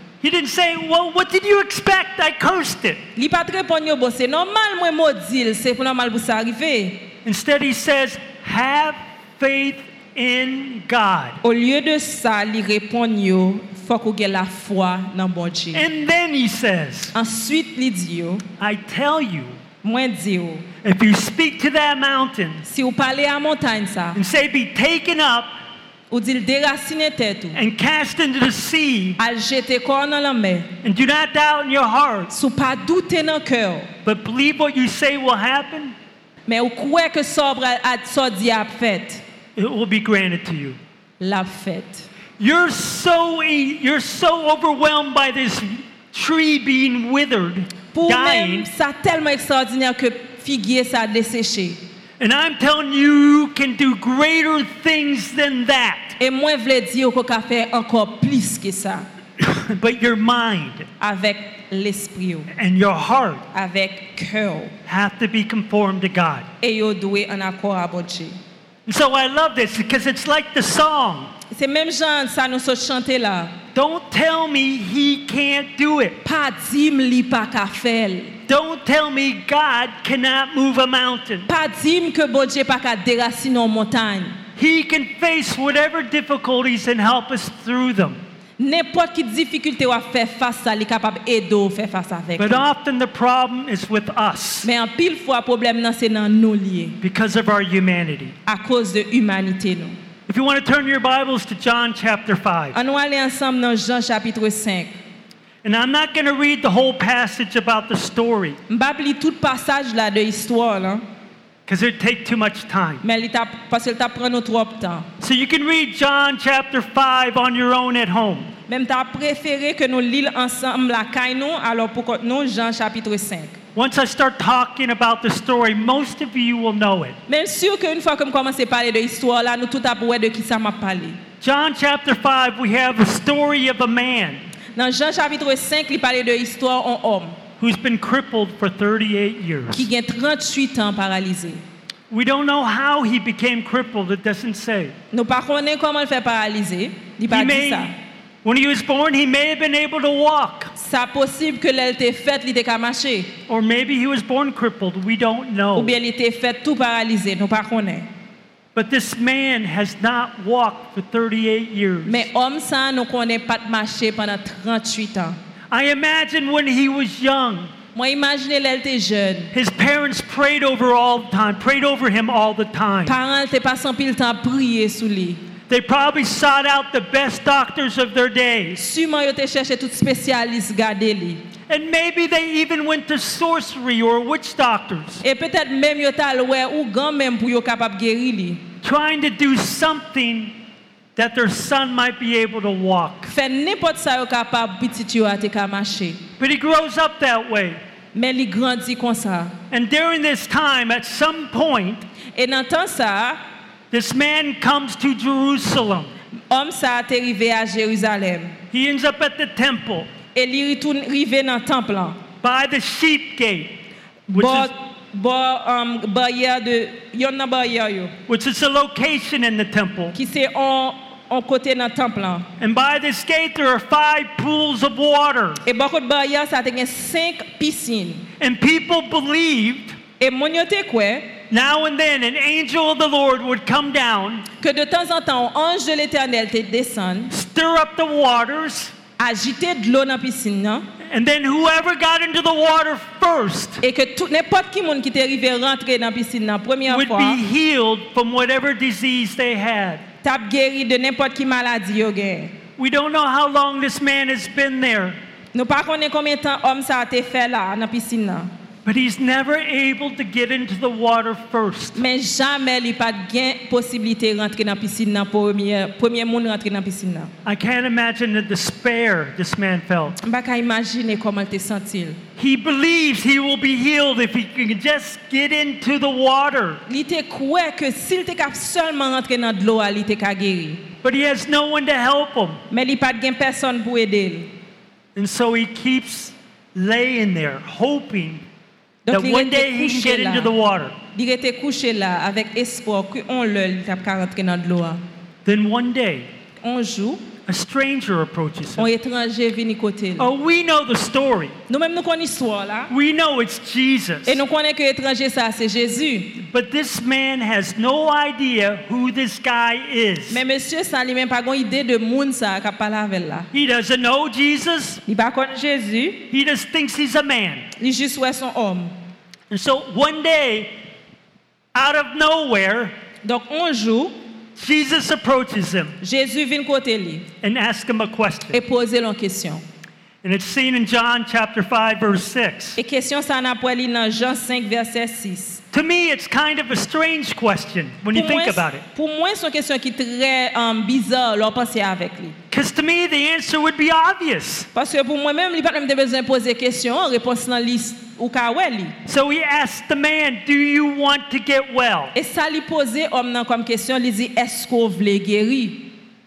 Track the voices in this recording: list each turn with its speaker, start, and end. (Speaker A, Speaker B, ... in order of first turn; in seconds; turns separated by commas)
Speaker A: 0.2-3.0, Speaker B: 3.2-7.1, Speaker A: 7.2-11.4, Speaker B: 11.4-15.8, Speaker A: 15.7-17.1, Speaker B: 17.1-18.4, Speaker A: 18.6-19.6, Speaker B: 19.8-20.7, Speaker A: 20.8-22.6, Speaker B: 22.6-24.2, Speaker A: 24.1-25.5, Speaker B: 26.1-27.6, Speaker A: 27.5-29.2, Speaker B: 29.2-30.8, Speaker A: 30.8-32.3, Speaker B: 32.3-33.9, Speaker A: 34.0-36.0, Speaker B: 36.5-39.2, Speaker A: 39.6-40.8, Speaker B: 41.2-42.1, Speaker A: 42.4-48.7, Speaker B: 47.9-51.8, Speaker A: 52.2-56.2, Speaker B: 56.2-59.1, Speaker A: 59.4-60.9, Speaker B: 61.0-62.5, Speaker A: 62.5-63.4, Speaker B: 63.5-64.7, Speaker A: 64.9-66.5, Speaker B: 66.6-68.3, Speaker A: 68.9-71.3, Speaker B: 71.5-73.6, Speaker A: 73.7-76.2, Speaker B: 76.2-78.4, Speaker A: 78.5-81.5, Speaker B: 81.5-84.4, Speaker A: 84.6-88.2, Speaker B: 88.6-92.7, Speaker A: 92.4-94.7, Speaker B: 94.6-97.0, Speaker A: 97.0-98.3, Speaker B: 98.5-100.0, Speaker A: 100.3-102.8, Speaker B: 102.7-104.9, Speaker A: 105.6-108.6, Speaker B: 108.7-111.0, Speaker A: 111.7-113.0, Speaker B: 113.0-115.1, Speaker A: 115.2-118.5, Speaker B: 118.7-123.6, Speaker A: 123.8-127.2, Speaker B: 127.3-131.2, Speaker A: 131.4-134.4, Speaker B: 134.8-137.4, Speaker A: 137.6-139.9, Speaker B: 139.7-141.6, Speaker A: 142.1-144.9, Speaker B: 145.1-147.9, Speaker A: 147.3-147.9, Speaker A: 148.4-150.7, Speaker B: 150.8-153.3, Speaker A: 153.5-155.9, Speaker B: 155.8-158.1, Speaker A: 158.8-162.3, Speaker B: 162.1-165.4, Speaker A: 165.7-167.7, Speaker B: 167.9-169.5, Speaker A: 169.5-173.2, Speaker B: 173.1-175.4, Speaker A: 175.7-178.8, Speaker B: 178.8-181.4, Speaker A: 181.7-185.2, Speaker B: 185.2-188.6, Speaker A: 188.8-190.6, Speaker A: 191.2-193.3, Speaker B: 193.3-196.2, Speaker A: 196.4-197.8, Speaker B: 198.1-199.6, Speaker A: 199.7-202.1, Speaker B: 202.3-203.4, Speaker A: 203.9-206.1, Speaker B: 206.5-208.6, Speaker A: 208.7-210.1, Speaker B: 210.3-212.2, Speaker A: 212.4-213.8, Speaker B: 214.3-218.2, Speaker A: 214.3-214.7, Speaker A: 218.3-220.2, Speaker B: 220.1-222.5, Speaker A: 222.6-225.6, Speaker B: 225.6-228.3, Speaker A: 228.4-230.0, Speaker B: 230.2-231.4, Speaker A: 231.5-234.5, Speaker B: 234.6-237.3, Speaker A: 237.3-238.9, Speaker B: 239.2-240.9, Speaker A: 241.1-243.8, Speaker B: 243.8-247.4, Speaker A: 246.9-250.1, Speaker B: 250.2-252.6, Speaker A: 252.8-255.2, Speaker B: 255.5-258.5, Speaker A: 258.9-262.0, Speaker B: 262.0-267.3, Speaker A: 267.4-270.2, Speaker B: 270.2-272.2, Speaker A: 272.4-276.8, Speaker B: 276.9-280.9, Speaker A: 281.0-282.6, Speaker B: 282.7-284.5, Speaker A: 285.1-288.4, Speaker B: 289.1-290.5, Speaker A: 289.1-290.9, Speaker B: 291.1-295.0, Speaker A: 295.4-296.3, Speaker B: 296.6-297.2, Speaker A: 297.5-298.9, Speaker B: 298.8-300.3, Speaker A: 300.2-301.5, Speaker B: 301.7-302.9, Speaker A: 302.9-304.4, Speaker B: 304.3-306.4, Speaker A: 306.4-310.4, Speaker B: 310.3-313.5, Speaker A: 313.5-315.0, Speaker B: 315.1-316.3, Speaker A: 316.3-317.7, Speaker B: 317.8-318.9, Speaker A: 319.5-320.7, Speaker A: 321.7-322.9, Speaker B: 323.2-324.1, Speaker A: 324.6-326.0, Speaker B: 326.0-327.3, Speaker A: 327.4-328.6, Speaker B: 328.5-329.6, Speaker A: 330.2-332.8, Speaker B: 332.8-335.6, Speaker A: 335.7-338.8, Speaker B: 338.1-342.4, Speaker A: 342.5-344.7, Speaker B: 344.7-349.0, Speaker A: 349.1-352.1, Speaker B: 352.1-355.9